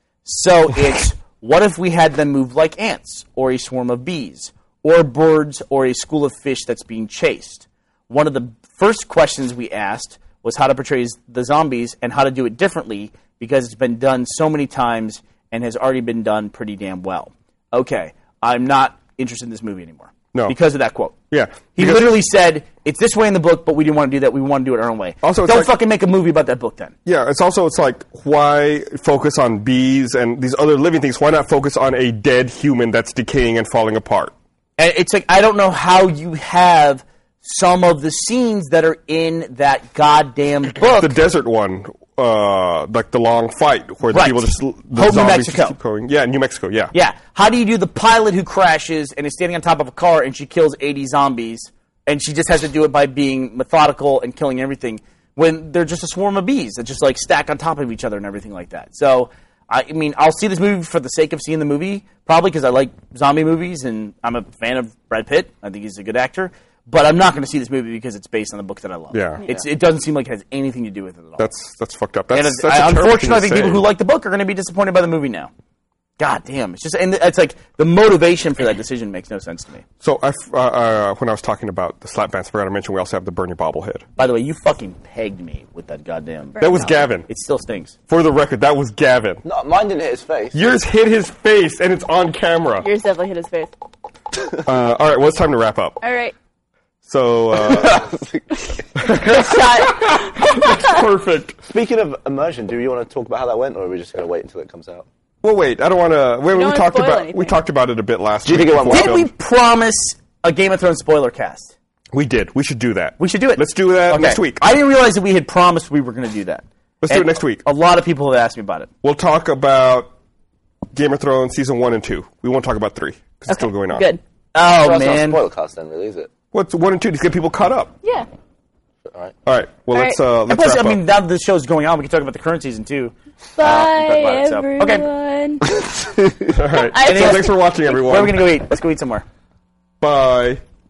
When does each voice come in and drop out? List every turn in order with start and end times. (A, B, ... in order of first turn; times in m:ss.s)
0:00.2-0:21.1 A
0:21.3-0:22.2 B
0:21.7-0:26.9 A
0:25.2-0:25.7 B
0:27.0-0:34.3 B
0:34.8-0:41.2 A
0:40.9-0:46.9 B
0:44.1-0:45.8 A
0:46.9-1:11.5 A
1:09.1-1:09.4 B
1:11.4-1:13.8 B
1:12.3-1:15.5 A
1:16.2-1:19.8 A
1:20.0-1:24.0 B
1:24.2-1:27.9 A
1:26.6-1:27.1 C
1:26.6-1:27.3 B
1:28.1-1:29.4 B
1:29.4-1:30.6 D
1:30.5-1:32.9 B
1:32.8-1:33.7 C
1:34.6-1:36.0 B
1:36.0-1:36.3 C
1:37.0-1:38.0 B
1:37.5-1:39.6 D
1:39.0-1:41.6 B
1:39.0-1:41.0 C
1:41.7-1:45.0 D
1:45.4-1:49.3 B
1:46.5-1:47.6 C
1:48.4-1:49.2 D
1:48.9-1:51.7 A
1:52.1-1:54.7 B
1:53.2-1:58.9 A
1:57.0-1:57.6 B
1:59.0-2:00.1 B
2:00.9-2:04.1 B
2:03.5-2:04.2 C
2:04.5-2:05.4 A
2:04.8-2:06.3 D
2:06.5-2:07.9 B
2:08.0-2:08.3 C
2:09.0-2:09.3 D
2:09.4-2:11.0 B
2:09.9-2:10.2 C
2:10.5-2:15.0 A
2:13.6-2:15.6 C
2:15.7-2:16.5 D
2:16.5-2:18.5 B
2:16.7-2:17.6 C
2:17.0-2:19.2 A
2:20.0-2:20.6 B